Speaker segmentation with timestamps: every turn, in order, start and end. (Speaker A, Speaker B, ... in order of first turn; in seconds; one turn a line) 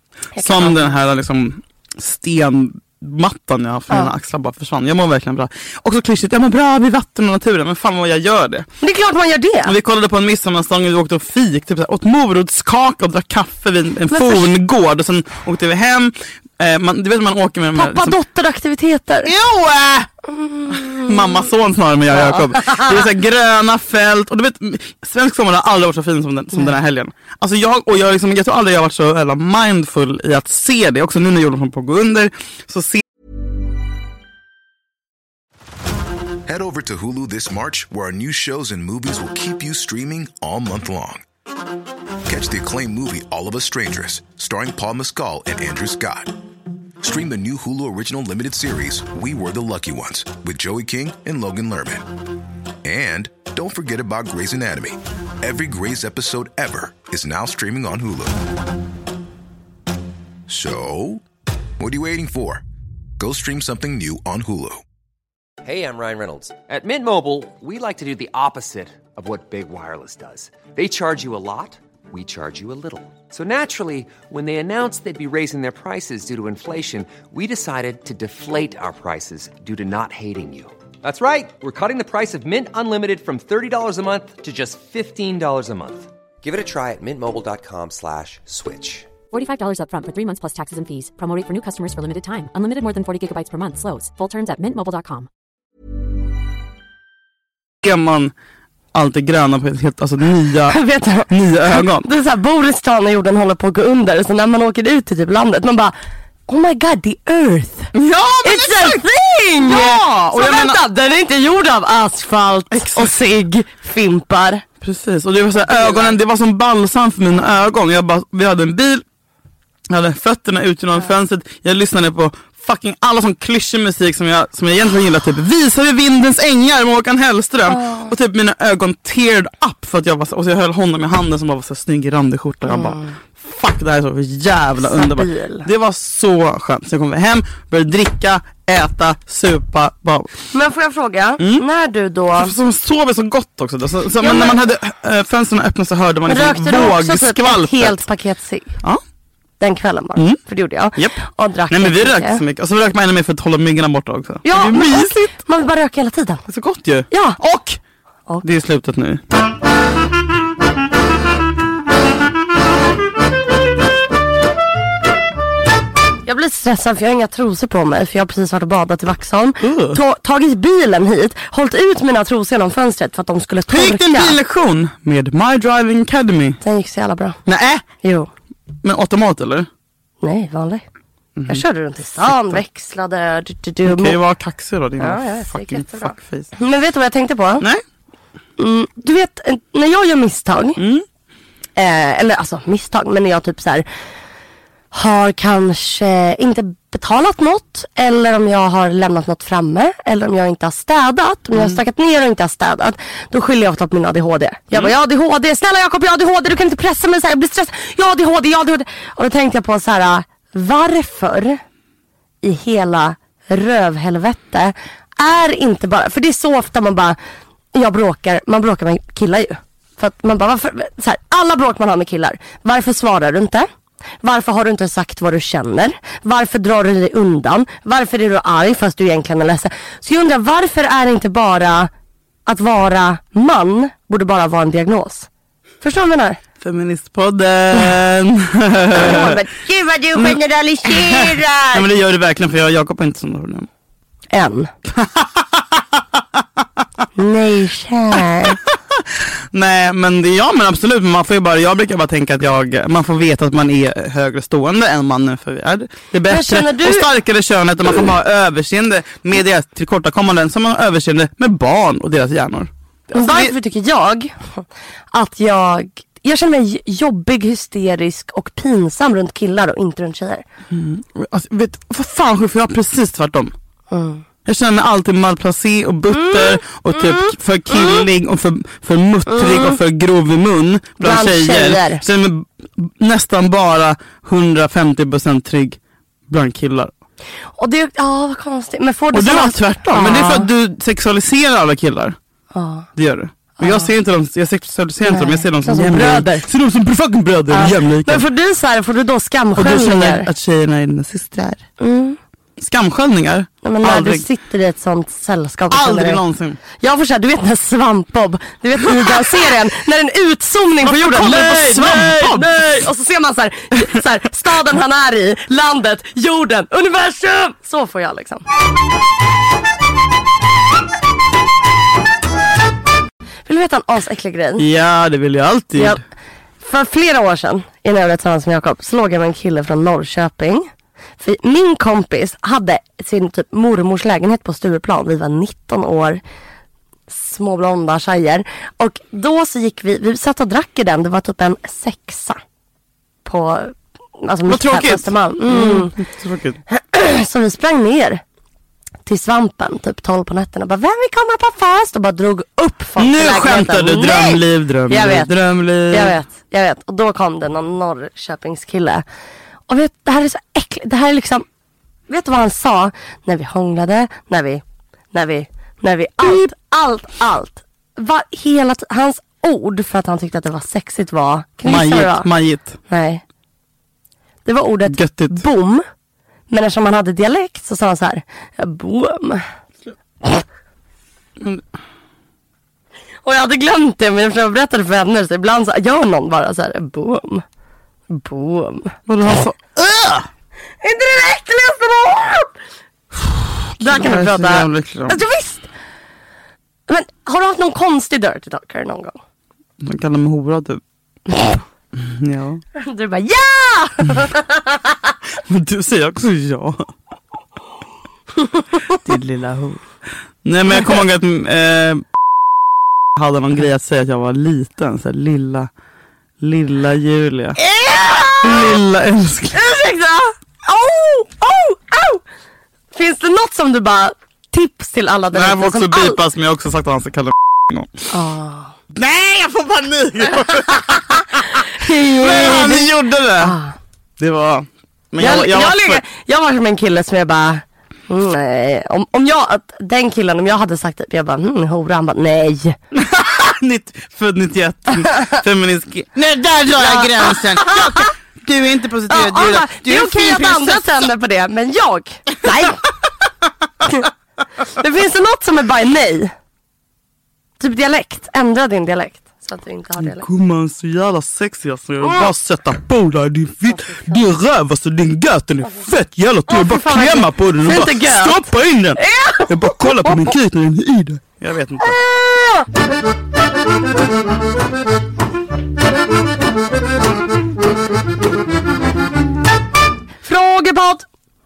Speaker A: 0.4-0.9
Speaker B: 0.4-8.7
Speaker A: 8.8-9.8
Speaker B: 9.7-18.2
Speaker A: 14.1-14.5
Speaker A: 17.8-19.3
Speaker B: 19.2-20.1
Speaker A: 20.4-21.1
Speaker B: 20.7-33.0
Speaker A: 22.1-23.1
Speaker C: 36.5-41.2
Speaker C: 42.3-46.4
Speaker C: 47.0-52.1
Speaker C: 52.8-58.4
Speaker C: 60.5-61.2
Speaker C: 61.8-62.6
Speaker C: 63.2-64.8
Speaker D: 65.6-89.1
Speaker E: 89.3-95.3
Speaker B: 97.8-98.3
Speaker B: 98.9-102.1
Speaker A: 100.7-106.0
Speaker A: 106.5-107.9
Speaker B: 108.0-109.0
Speaker A: 108.4-114.6
Speaker B: 109.6-110.8
Speaker B: 112.7-113.1
Speaker B: 114.8-119.0
Speaker A: 115.6-116.2
Speaker B: 119.9-140.3
Speaker A: 127.7-128.1
Speaker A: 132.7-133.1
Speaker A: 134.8-135.7
Speaker A: 140.5-142.6
Speaker B: 142.3-148.0
Speaker A: 144.2-144.6
Speaker A: 146.3-148.8
Speaker A: 149.6-152.4
Speaker B: 151.7-155.2
Speaker A: 154.4-156.4
Speaker B: 156.5-157.8
Speaker A: 157.1-157.4
Speaker B: 158.4-159.2
Speaker A: 166.2-174.4
Speaker B: 169.6-170.0
Speaker B: 173.7-176.6
Speaker A: 176.6-177.4
Speaker B: 177.5-177.8
Speaker A: 178.0-178.3
Speaker B: 178.8-179.7
Speaker A: 180.2-180.8
Speaker B: 181.4-181.6
Speaker A: 181.5-184.2
Speaker B: 182.2-182.6
Speaker B: 183.8-186.5
Speaker A: 185.0-187.7
Speaker A: 188.6-190.8
Speaker B: 190.8-191.1
Speaker A: 191.8-193.9
Speaker A: 194.9-211.6
Speaker A: 212.4-217.2
Speaker A: 217.7-223.7
Speaker A: 224.2-231.9
Speaker A: 232.5-235.3
Speaker A: 235.8-236.4
Speaker B: 236.6-239.3
Speaker A: 238.9-241.8
Speaker B: 240.9-243.7
Speaker A: 244.3-244.7
Speaker B: 245.0-245.4
Speaker A: 247.2-248.6
Speaker B: 248.9-263.5
Speaker A: 256.3-257.1
Speaker A: 263.1-264.6
Speaker A: 265.1-270.4
Speaker B: 270.7-273.5
Speaker A: 273.9-274.2
Speaker B: 274.4-285.8
Speaker A: 276.1-278.0
Speaker A: 279.3-279.8
Speaker A: 281.0-282.0
Speaker B: 286.3-286.9
Speaker A: 287.6-290.5
Speaker B: 289.1-292.2
Speaker A: 292.5-292.9
Speaker B: 293.0-298.2
Speaker A: 293.6-293.9
Speaker A: 295.1-296.4
Speaker A: 297.5-300.3
Speaker B: 299.6-301.6
Speaker A: 301.8-302.2
Speaker B: 302.6-304.2
Speaker A: 303.6-306.2
Speaker B: 305.7-306.6
Speaker A: 306.8-318.4
Speaker B: 310.8-312.6
Speaker A: 323.5-324.6
Speaker B: 324.6-326.0
Speaker A: 326.6-330.7
Speaker A: 331.2-336.2
Speaker A: 337.1-342.4
Speaker A: 343.2-346.0
Speaker B: 344.5-346.6
Speaker A: 346.7-348.2
Speaker A: 349.1-355.3
Speaker B: 353.0-356.2
Speaker A: 355.9-359.0
Speaker A: 359.7-361.5
Speaker A: 362.1-372.3
Speaker B: 371.6-372.8
Speaker A: 372.9-373.2
Speaker A: 374.5-375.9
Speaker B: 374.9-375.4
Speaker A: 376.5-379.4
Speaker A: 383.2-387.4
Speaker A: 388.1-389.0
Speaker B: 389.1-390.3
Speaker A: 390.8-392.5
Speaker B: 393.8-395.2
Speaker A: 393.8-395.7
Speaker A: 396.9-399.2
Speaker B: 399.8-400.8
Speaker B: 401.9-402.6
Speaker A: 402.8-404.8
Speaker B: 405.5-406.9
Speaker B: 408.9-409.8
Speaker B: 410.4-412.0
Speaker B: 413.2-415.7
Speaker B: 416.4-417.6
Speaker A: 417.6-418.8
Speaker B: 418.4-419.6
Speaker A: 419.5-422.2
Speaker A: 422.9-426.2
Speaker B: 425.3-427.9
Speaker A: 428.1-428.8
Speaker B: 428.9-431.2
Speaker A: 431.7-433.8
Speaker B: 432.1-433.6
Speaker B: 434.2-436.0
Speaker A: 435.2-442.8
Speaker B: 442.9-450.9
Speaker A: 446.8-448.1
Speaker A: 449.1-452.9
Speaker A: 454.7-456.3
Speaker A: 457.6-460.3
Speaker B: 460.0-472.0
Speaker A: 462.0-462.3
Speaker A: 466.5-470.3
Speaker A: 471.8-472.6
Speaker A: 480.2-481.1